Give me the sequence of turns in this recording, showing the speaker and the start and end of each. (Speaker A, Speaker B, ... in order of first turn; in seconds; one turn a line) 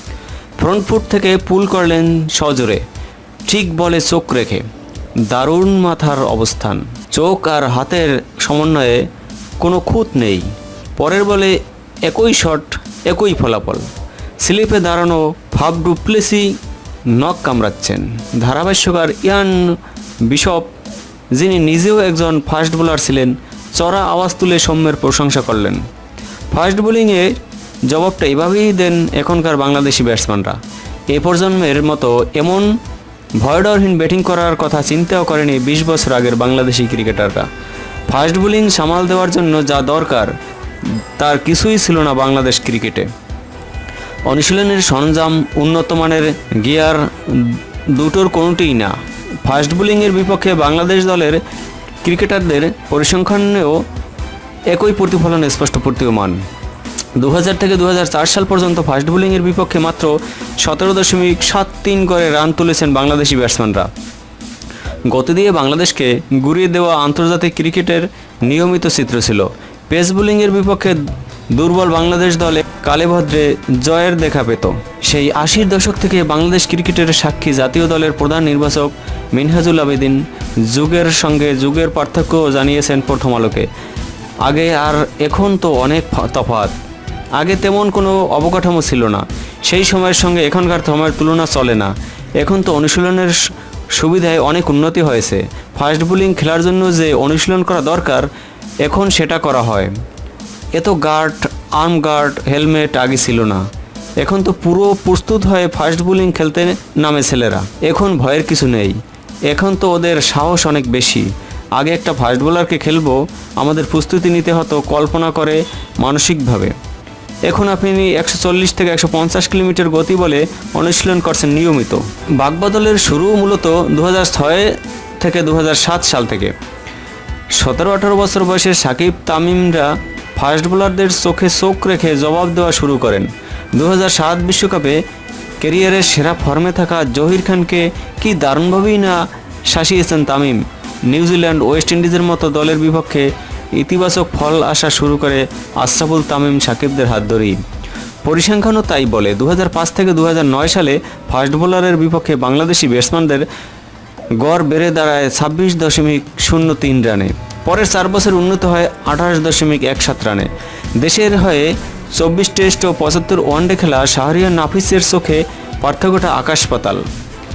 Speaker A: 0.6-2.8
Speaker A: 3.4-4.7
Speaker A: 5.3-9.0
Speaker A: 9.6-13.9
Speaker A: 14.4-16.6
Speaker A: 17.1-20.7
Speaker A: 21.3-25.8
Speaker A: 26.5-30.6
Speaker A: 31.1-32.8
Speaker A: 33.4-37.5
Speaker A: 38.1-43.1
Speaker A: 44.2-51.4
Speaker A: 52.0-53.8
Speaker A: 54.7-56.4
Speaker A: 57.2-63.9
Speaker A: 65.1-83.7
Speaker A: 84.4-86.8
Speaker A: 87.3-98.3
Speaker A: 98.8-99.9
Speaker A: 100.7-103.6
Speaker A: 104.2-116.8
Speaker A: 117.5-126.5
Speaker A: 127.5-135.0
Speaker A: 135.6-147.6
Speaker A: 148.2-153.5
Speaker A: 154.3-167.1